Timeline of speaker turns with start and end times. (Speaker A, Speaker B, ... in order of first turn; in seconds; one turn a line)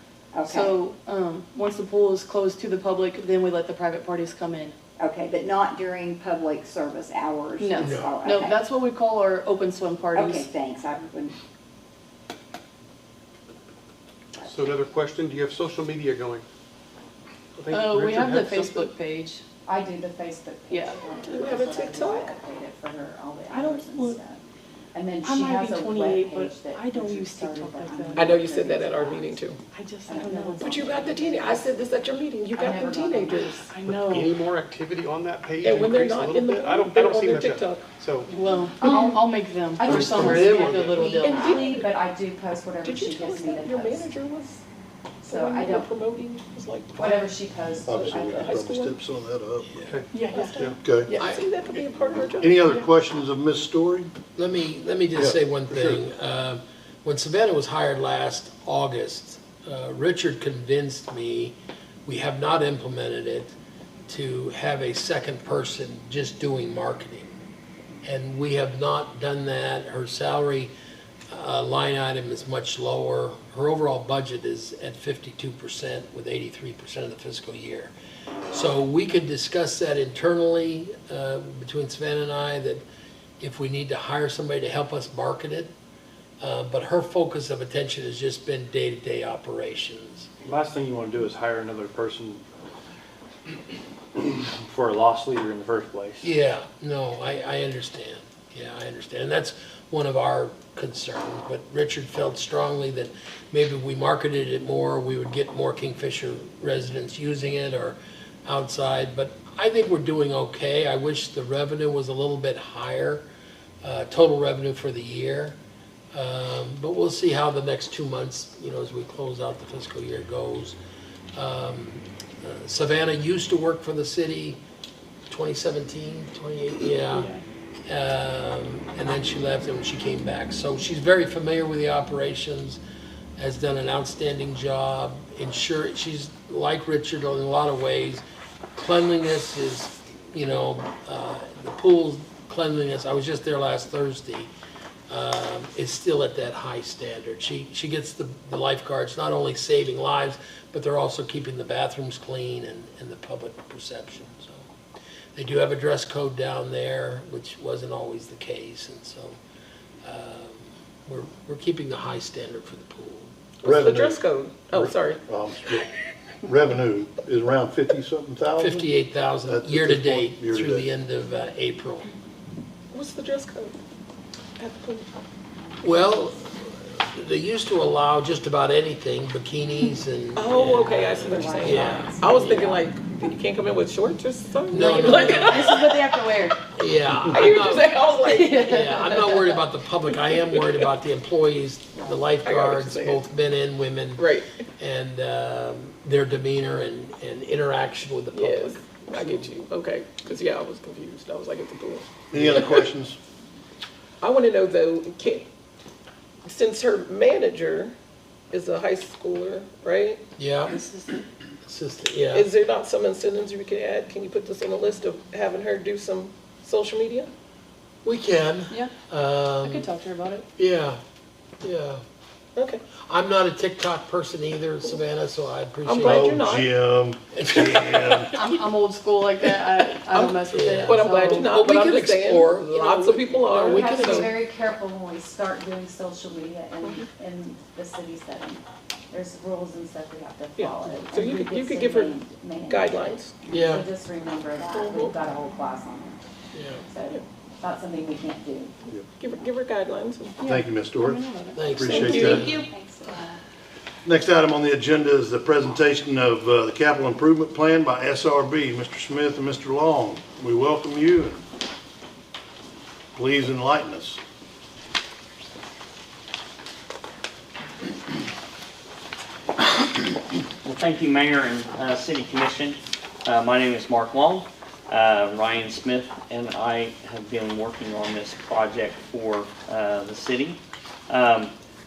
Speaker A: 0.3-0.7
Speaker B: 0.4-4.8
Speaker A: 5.0-8.6
Speaker B: 7.6-10.4
Speaker C: 7.8-8.1
Speaker A: 10.1-11.3
Speaker D: 14.4-16.4
Speaker D: 17.6-18.9
Speaker B: 17.7-19.4
Speaker E: 19.6-24.4
Speaker B: 20.7-21.1
Speaker F: 21.2-22.4
Speaker B: 23.5-24.2
Speaker E: 24.9-29.4
Speaker B: 25.2-28.4
Speaker F: 28.2-29.6
Speaker B: 29.7-31.1
Speaker E: 30.1-31.9
Speaker F: 30.6-33.5
Speaker E: 32.5-33.7
Speaker B: 33.5-34.4
Speaker D: 33.8-38.3
Speaker F: 35.6-37.9
Speaker B: 38.3-41.5
Speaker E: 38.8-44.1
Speaker D: 39.9-41.1
Speaker F: 41.1-41.9
Speaker F: 42.8-44.6
Speaker E: 45.2-45.9
Speaker F: 45.2-47.3
Speaker E: 47.0-48.5
Speaker G: 47.9-49.9
Speaker F: 47.9-49.0
Speaker C: 49.6-50.0
Speaker D: 49.8-50.8
Speaker B: 50.1-51.1
Speaker F: 50.3-52.8
Speaker G: 50.8-51.1
Speaker G: 52.4-54.1
Speaker C: 54.4-63.5
Speaker G: 55.1-56.0
Speaker C: 64.1-67.3
Speaker C: 68.0-70.7
Speaker C: 71.3-77.9
Speaker C: 78.5-82.8
Speaker C: 83.4-85.7
Speaker C: 86.4-90.3
Speaker H: 90.4-92.4
Speaker H: 94.2-96.3
Speaker C: 96.2-113.2
Speaker C: 113.8-115.6
Speaker C: 116.1-120.8
Speaker C: 121.3-124.6
Speaker C: 125.3-127.3
Speaker C: 127.9-132.8
Speaker C: 133.4-138.2
Speaker C: 138.8-144.5
Speaker C: 145.1-154.7
Speaker C: 155.3-159.4
Speaker C: 160.0-163.8
Speaker G: 163.6-165.8
Speaker F: 163.6-165.2
Speaker G: 166.4-168.9
Speaker C: 168.6-172.1
Speaker G: 169.4-170.8
Speaker F: 172.9-173.8
Speaker F: 174.6-175.1
Speaker C: 175.8-182.7
Speaker F: 180.3-186.3
Speaker E: 181.3-182.2
Speaker A: 181.6-182.6
Speaker C: 184.7-185.8
Speaker B: 184.9-186.6
Speaker C: 186.7-187.9
Speaker F: 187.2-189.3
Speaker B: 188.2-189.6
Speaker C: 188.5-199.5
Speaker F: 190.1-190.8
Speaker F: 192.4-193.2
Speaker F: 194.2-194.6
Speaker F: 198.3-202.6
Speaker G: 202.3-203.2
Speaker C: 202.3-202.8
Speaker F: 204.2-205.5
Speaker F: 206.4-207.9
Speaker F: 208.5-210.2
Speaker C: 210.4-210.8
Speaker B: 210.7-211.2
Speaker C: 211.6-212.5
Speaker F: 212.3-217.3
Speaker C: 218.0-219.9
Speaker B: 219.6-220.4
Speaker C: 220.6-221.0
Speaker C: 221.6-222.0
Speaker F: 222.6-222.8
Speaker C: 223.1-226.4
Speaker F: 225.8-226.7
Speaker G: 226.0-228.3
Speaker C: 227.3-228.3
Speaker B: 228.3-231.5
Speaker F: 230.1-234.3
Speaker C: 230.5-234.3
Speaker E: 233.5-246.2
Speaker F: 236.8-237.1
Speaker F: 240.6-243.3
Speaker C: 243.5-243.9
Speaker F: 244.7-245.1
Speaker C: 246.5-246.8
Speaker E: 246.8-248.7
Speaker F: 249.2-250.4
Speaker B: 250.4-252.4
Speaker G: 250.4-252.6
Speaker C: 251.5-252.7
Speaker F: 251.8-252.7
Speaker E: 252.7-253.2
Speaker A: 252.7-253.3
Speaker G: 254.0-261.4
Speaker G: 263.1-264.2
Speaker I: 270.6-280.6
Speaker I: 281.1-281.5